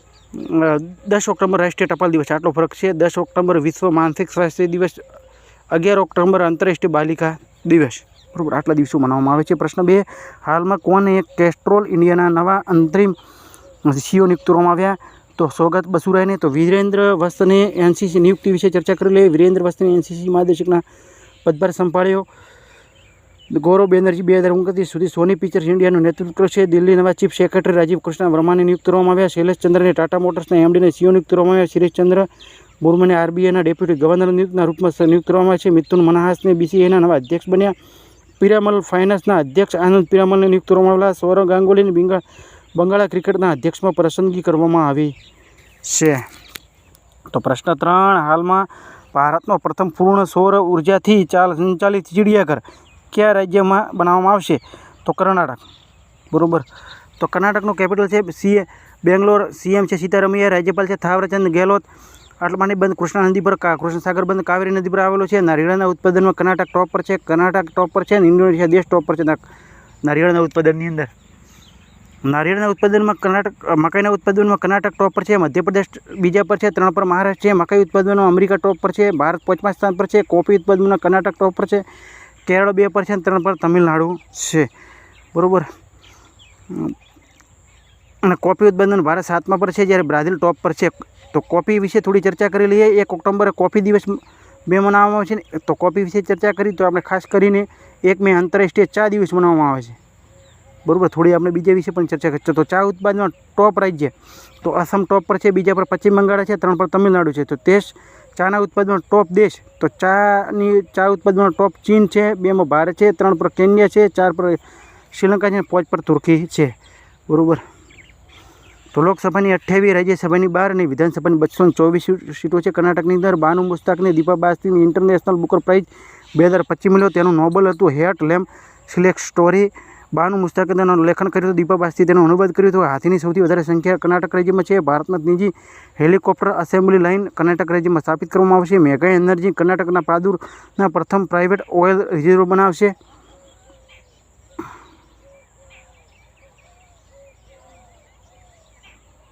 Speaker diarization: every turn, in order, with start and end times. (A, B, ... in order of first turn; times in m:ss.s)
0:00.3-0:05.0 A
0:05.7-0:13.2 A
0:13.8-0:20.8 A
0:21.4-0:22.3 A
0:23.5-0:32.3 A
0:32.8-0:37.7 A
0:38.4-0:42.2 A
0:42.7-0:45.1 A
0:45.8-0:46.2 A
0:47.3-0:55.6 A
0:56.3-0:56.6 A
0:57.2-1:01.8 A
1:02.4-1:09.4 A
1:10.0-1:11.1 A
1:12.2-1:21.8 A
1:22.4-1:24.7 A
1:25.3-1:25.7 A
1:26.7-1:26.9 A
1:28.2-1:40.0 A
1:40.8-1:54.6 A
1:55.1-1:56.8 A
1:57.3-1:57.6 A
1:58.9-2:22.9 A